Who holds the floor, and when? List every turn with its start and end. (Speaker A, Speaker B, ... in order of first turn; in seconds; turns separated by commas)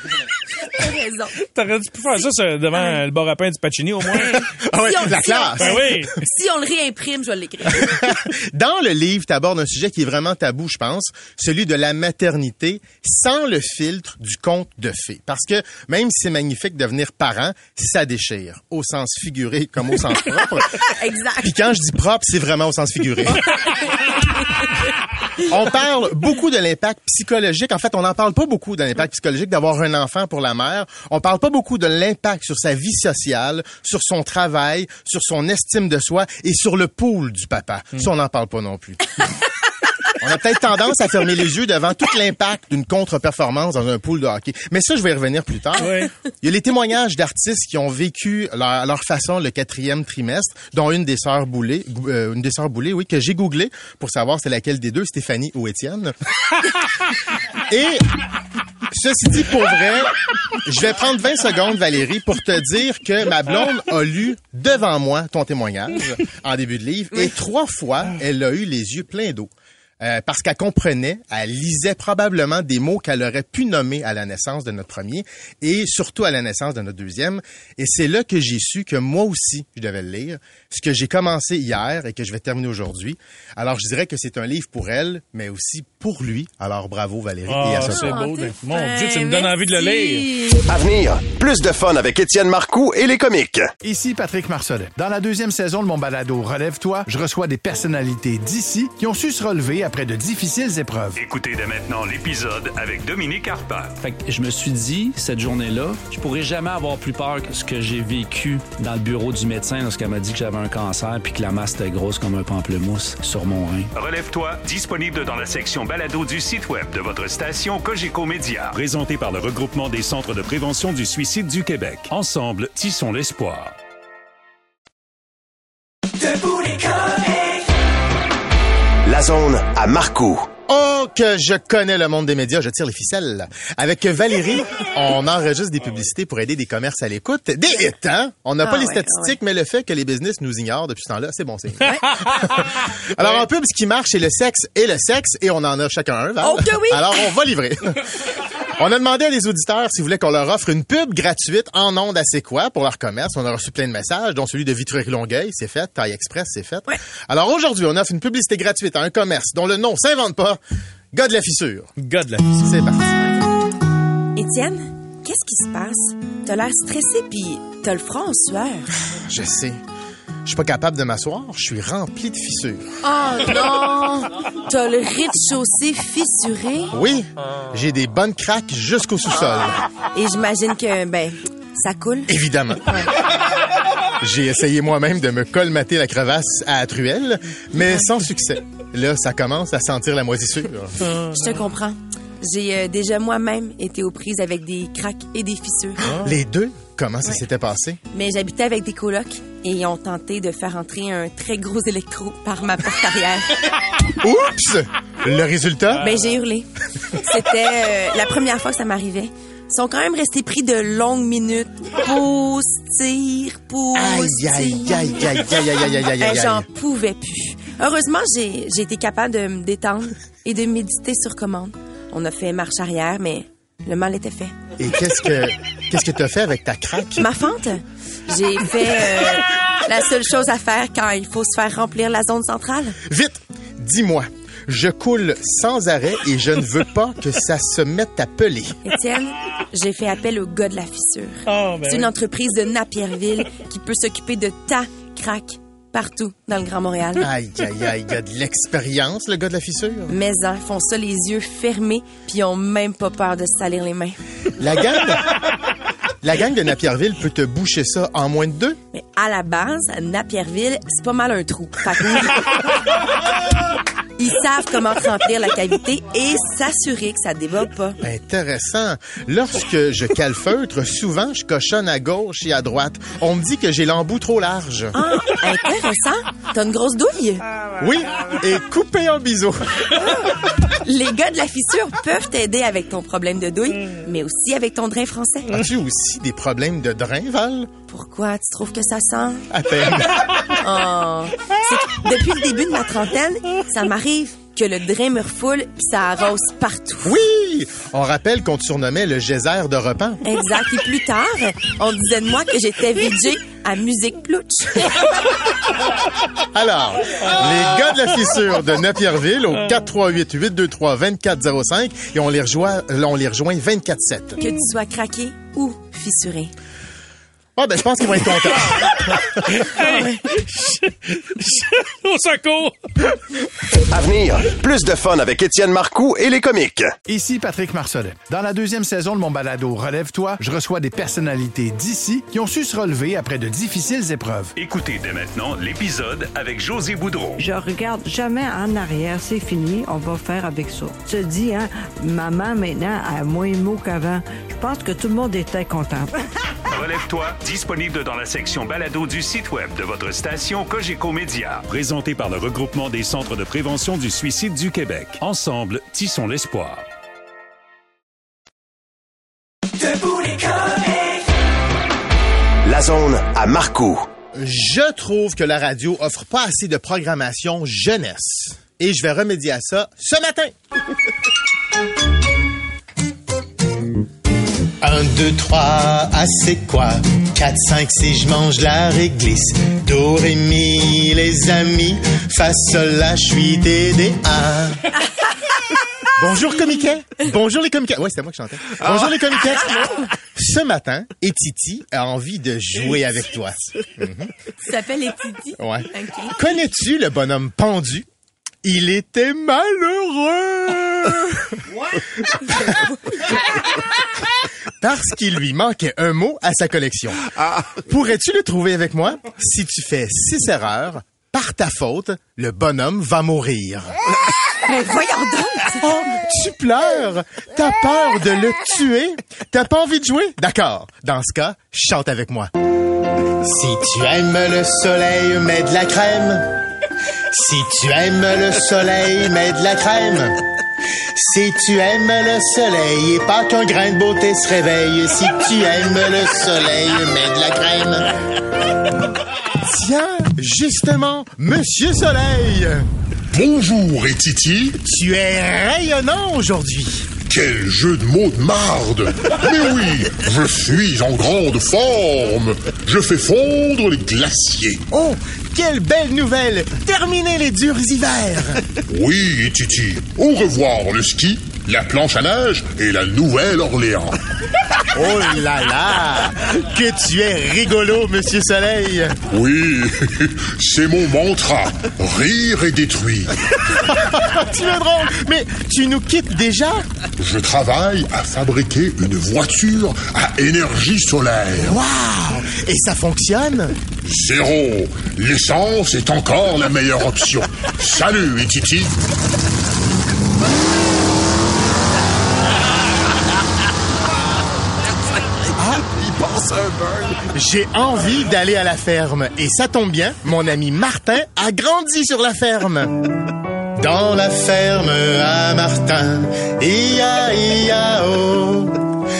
Speaker A: 0.7-1.4, Speaker B: 1.5-4.4, Speaker A: 2.7-3.0, Speaker C: 4.2-6.0, Speaker A: 4.8-8.0, Speaker B: 5.6-6.0, Speaker C: 7.9-20.7, Speaker A: 21.0-21.5, Speaker C: 21.4-23.6, Speaker C: 25.4-39.1, Speaker C: 40.2-56.1, Speaker C: 57.7-58.0, Speaker C: 58.9-69.5, Speaker C: 70.0-88.2, Speaker B: 87.6-90.2, Speaker A: 87.8-90.6, Speaker D: 90.7-93.7, Speaker E: 93.8-101.2, Speaker F: 101.2-104.0, Speaker G: 104.0-113.9, Speaker F: 113.9-123.7, Speaker D: 129.0-130.5, Speaker C: 130.7-148.0, Speaker A: 138.6-139.3, Speaker A: 146.4-147.2, Speaker C: 148.6-160.6, Speaker C: 161.1-161.9, Speaker G: 162.1-162.4, Speaker C: 162.6-163.1, Speaker A: 163.2-163.4, Speaker A: 164.3-168.9, Speaker C: 169.1-169.8, Speaker C: 170.4-172.9, Speaker A: 173.0-176.9, Speaker C: 176.9-179.8, Speaker A: 179.4-182.3, Speaker C: 182.3-182.9, Speaker C: 184.2-190.9, Speaker A: 191.2-196.1, Speaker C: 196.0-198.0, Speaker A: 198.1-203.6, Speaker C: 204.2-206.1, Speaker A: 206.0-215.5, Speaker C: 213.9-216.7, Speaker A: 216.2-224.5, Speaker C: 224.8-227.3, Speaker A: 227.2-233.0, Speaker C: 233.1-238.8, Speaker A: 238.8-247.3, Speaker B: 241.5-242.1, Speaker C: 247.2-250.1, Speaker A: 250.1-254.2, Speaker C: 254.6-255.3, Speaker C: 256.2-258.8, Speaker A: 258.9-262.6, Speaker A: 264.2-268.0, Speaker C: 268.0-274.9, Speaker A: 274.9-277.4, Speaker C: 277.8-279.6, Speaker A: 280.6-285.6, Speaker C: 285.5-287.7, Speaker A: 287.9-289.4, Speaker C: 289.5-290.4, Speaker A: 290.6-297.1, Speaker C: 297.0-300.2, Speaker A: 300.2-305.0, Speaker C: 306.4-314.4, Speaker A: 314.4-316.5, Speaker C: 317.6-319.2, Speaker A: 319.7-320.2, Speaker B: 321.4-322.7, Speaker D: 323.9-326.9, Speaker E: 327.1-334.5, Speaker F: 334.6-337.4, Speaker H: 337.4-346.1, Speaker F: 346.7-356.9, Speaker D: 362.6-364.0, Speaker C: 364.4-370.5, Speaker C: 374.8-384.9, Speaker C: 386.2-394.3, Speaker A: 394.6-396.4, Speaker C: 395.6-398.1, Speaker C: 398.6-401.6, Speaker C: 404.8-413.9, Speaker A: 414.6-415.8, Speaker C: 415.8-422.5, Speaker C: 423.4-426.5, Speaker C: 427.3-430.4, Speaker C: 431.1-438.1, Speaker C: 439.6-442.9, Speaker I: 443.3-444.8, Speaker C: 444.8-447.1, Speaker I: 447.3-454.8, Speaker C: 454.9-458.6, Speaker I: 458.9-464.2, Speaker C: 464.9-469.1, Speaker I: 469.3-473.3, Speaker C: 473.8-476.8, Speaker I: 477.2-481.8, Speaker C: 481.6-483.7, Speaker I: 484.0-489.1, Speaker C: 495.6-495.9, Speaker D: 496.0-497.1, Speaker C: 497.1-503.0, Speaker C: 503.8-508.8